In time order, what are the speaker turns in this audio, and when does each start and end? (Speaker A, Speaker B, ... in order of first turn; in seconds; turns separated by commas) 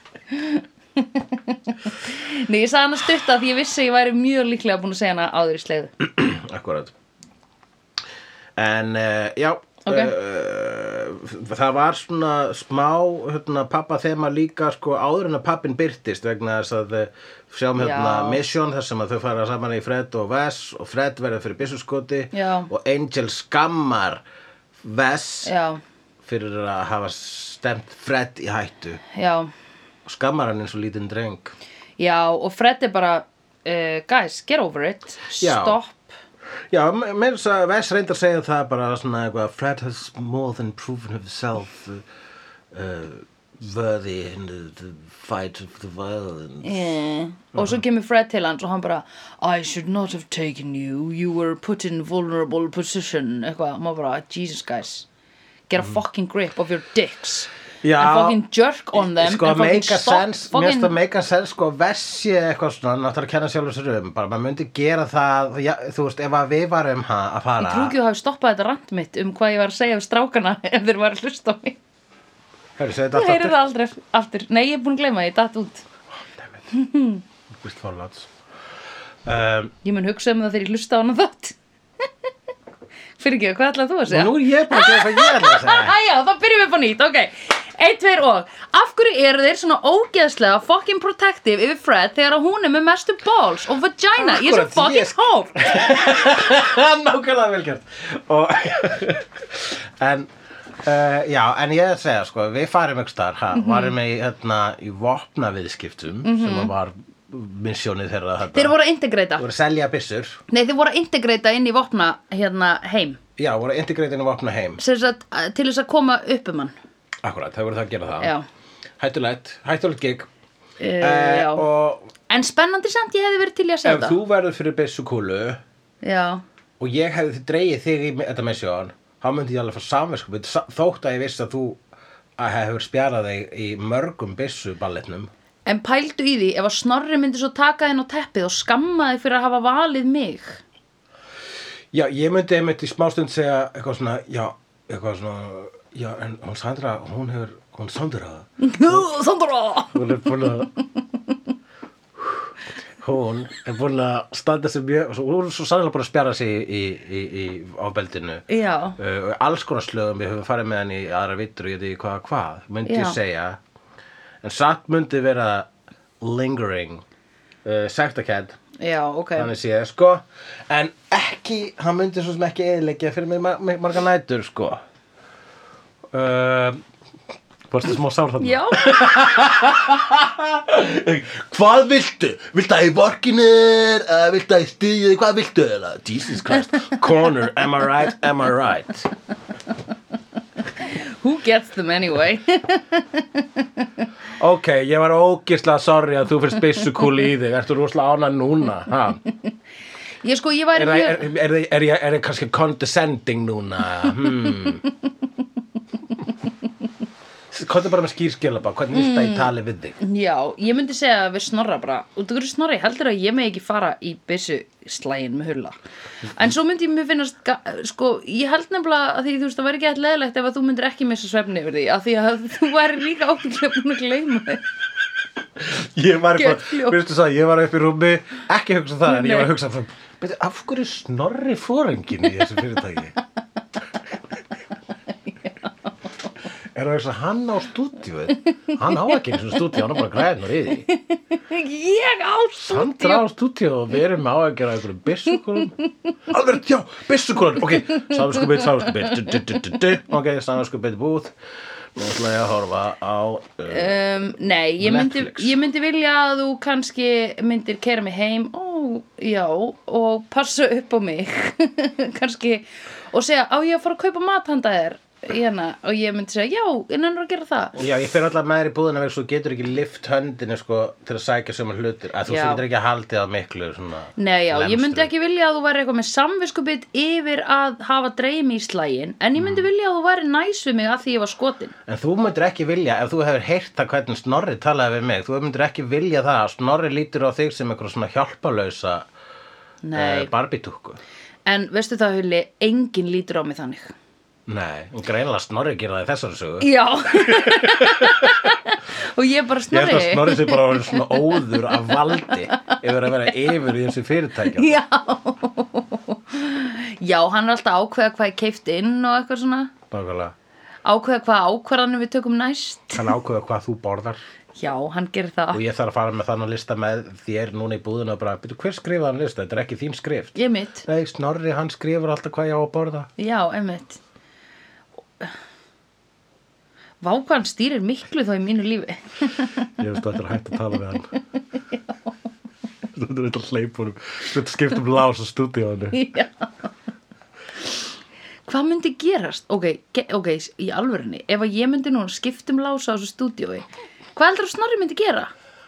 Speaker A: 0.3-5.9, Speaker B: 6.0-6.9, Speaker B: 8.6-24.2, Speaker A: 9.9-10.1, Speaker A: 17.8-18.4, Speaker A: 22.3-22.7, Speaker B: 24.8-25.5, Speaker A: 25.4-25.8, Speaker B: 26.2-29.0, Speaker A: 29.1-29.5, Speaker B: 30.1-31.6, Speaker A: 32.0-36.1, Speaker B: 35.4-35.8, Speaker B: 36.7-42.0, Speaker B: 42.7-46.9, Speaker A: 46.6-55.1, Speaker B: 47.5-47.8, Speaker A: 55.7-60.9, Speaker B: 57.8-58.4, Speaker B: 58.9-68.0, Speaker A: 67.6-71.8, Speaker B: 72.8-73.6, Speaker A: 73.1-75.8, Speaker B: 76.3-76.7, Speaker A: 76.7-77.2, Speaker B: 77.5-78.3, Speaker B: 79.2-79.7, Speaker A: 79.8-81.6, Speaker A: 83.2-95.6, Speaker B: 84.1-86.0, Speaker B: 94.2-100.3, Speaker B: 100.8-108.8, Speaker A: 103.5-103.9, Speaker A: 106.2-106.7, Speaker A: 108.5-109.5, Speaker B: 109.4-110.4, Speaker A: 110.5-113.2, Speaker B: 113.4-114.8, Speaker A: 114.8-116.8, Speaker B: 117.2-118.3, Speaker A: 118.2-118.5, Speaker B: 119.0-120.3, Speaker A: 120.8-121.7, Speaker B: 121.0-122.1, Speaker A: 122.3-124.2, Speaker B: 123.8-125.6, Speaker A: 126.0-126.4, Speaker B: 126.8-131.8, Speaker B: 132.4-135.3, Speaker A: 135.7-140.6, Speaker B: 141.9-149.1, Speaker A: 148.6-150.5, Speaker B: 149.9-150.7, Speaker B: 152.2-158.4, Speaker A: 158.5-159.0, Speaker B: 159.0-163.6, Speaker A: 162.8-163.2, Speaker B: 164.4-165.7, Speaker B: 166.2-167.0, Speaker B: 167.7-168.6, Speaker A: 168.8-169.5, Speaker B: 169.4-174.8, Speaker B: 176.1-176.8, Speaker B: 177.7-189.1, Speaker A: 178.4-178.9, Speaker A: 190.8-193.8, Speaker B: 194.4-199.2, Speaker A: 200.2-201.2, Speaker B: 200.7-204.8, Speaker B: 207.5-210.0, Speaker A: 208.9-215.8, Speaker A: 216.4-224.6, Speaker B: 225.6-233.2, Speaker A: 226.4-227.0, Speaker A: 229.1-229.5, Speaker B: 236.7-240.9, Speaker A: 240.9-243.2, Speaker B: 242.7-245.7, Speaker B: 246.3-251.3, Speaker B: 251.9-254.0, Speaker A: 253.7-267.8, Speaker B: 254.8-255.6, Speaker B: 267.8-275.1, Speaker A: 272.3-272.6, Speaker A: 274.2-281.7, Speaker B: 279.4-279.7, Speaker B: 281.9-289.1, Speaker A: 289.8-290.3, Speaker B: 289.9-291.0, Speaker A: 291.5-293.9, Speaker B: 294.5-298.4, Speaker A: 296.6-302.8, Speaker B: 299.7-304.8, Speaker A: 304.5-309.7, Speaker B: 309.9-310.4, Speaker A: 310.9-313.1, Speaker B: 312.9-314.2, Speaker A: 314.6-315.6, Speaker B: 315.5-323.1, Speaker A: 320.4-320.9, Speaker A: 323.2-324.0, Speaker A: 327.0-329.7, Speaker B: 329.8-331.1, Speaker B: 332.9-336.0, Speaker A: 335.9-336.7, Speaker A: 338.5-345.3